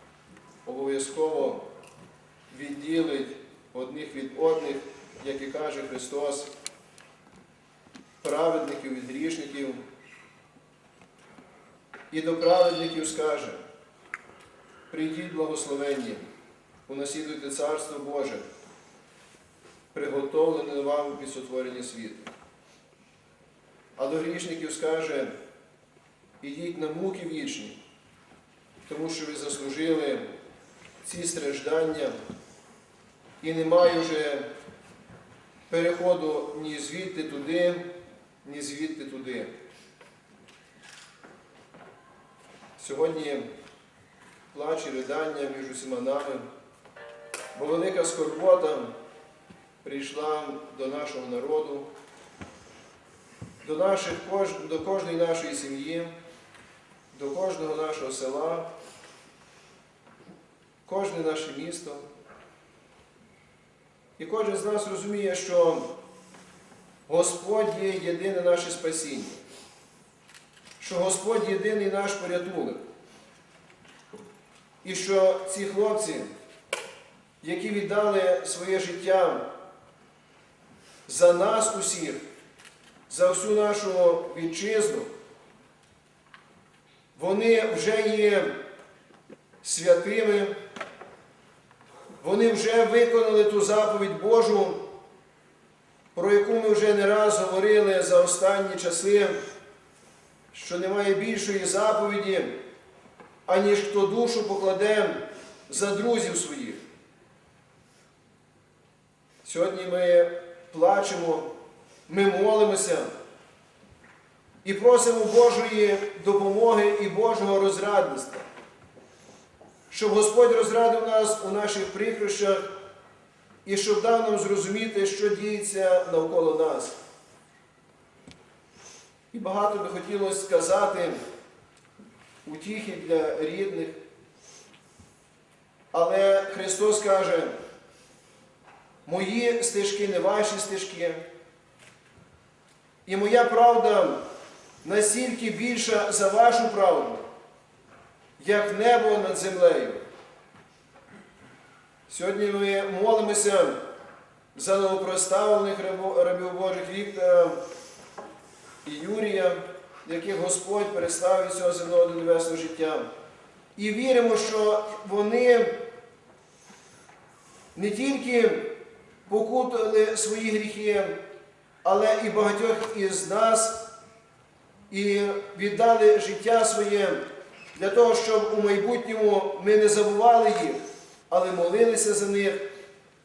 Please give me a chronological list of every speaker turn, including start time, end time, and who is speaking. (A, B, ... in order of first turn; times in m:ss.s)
0:00.6-0:01.7 A
0:02.5-0:06.5 A
0:08.2-0:09.8 A
0:12.1-0:13.6 A
0:14.9-0:16.2 A
0:16.9-0:18.5 A
0:19.9-0:22.3 A
0:24.0-0:25.4 A
0:26.4-0:27.8 A
0:28.9-0:30.3 A
0:31.0-0:32.2 A
0:33.4-0:34.5 A
0:35.7-0:37.9 A
0:38.4-0:39.5 A
0:42.8-0:43.4 A
0:44.5-0:46.5 A
0:47.5-0:48.9 A
0:49.8-0:51.9 A
0:53.6-0:56.1 A
0:57.1-0:58.7 A
1:00.8-1:02.0 A
1:04.2-1:05.9 A
1:07.1-1:09.4 A
1:10.8-1:12.8 A
1:14.8-1:16.3 A
1:17.4-1:19.4 A
1:21.1-1:22.2 A
1:23.1-1:25.1 A
1:27.2-1:28.6 A
1:29.6-1:30.5 A
1:32.2-1:34.8 A
1:36.1-1:39.4 A
1:40.5-1:42.6 A
1:43.4-1:46.8 A
1:49.4-1:51.5 A
1:52.1-1:53.1 A
1:54.6-1:58.4 A
1:59.9-2:02.7 A
2:03.6-2:07.0 A
2:09.3-2:11.2 A
2:12.4-2:14.0 A
2:15.9-2:17.6 A
2:19.0-2:21.2 A
2:23.0-2:24.2 A
2:24.8-2:27.2 A
2:28.4-2:30.0 A
2:32.1-2:33.8 A
2:34.5-2:37.6 A
2:38.8-2:43.1 A
2:43.8-2:45.8 A
2:47.7-2:48.8 A
2:49.3-2:51.2 A
2:51.8-2:53.9 A
2:54.9-2:57.2 A
2:57.7-3:02.7 A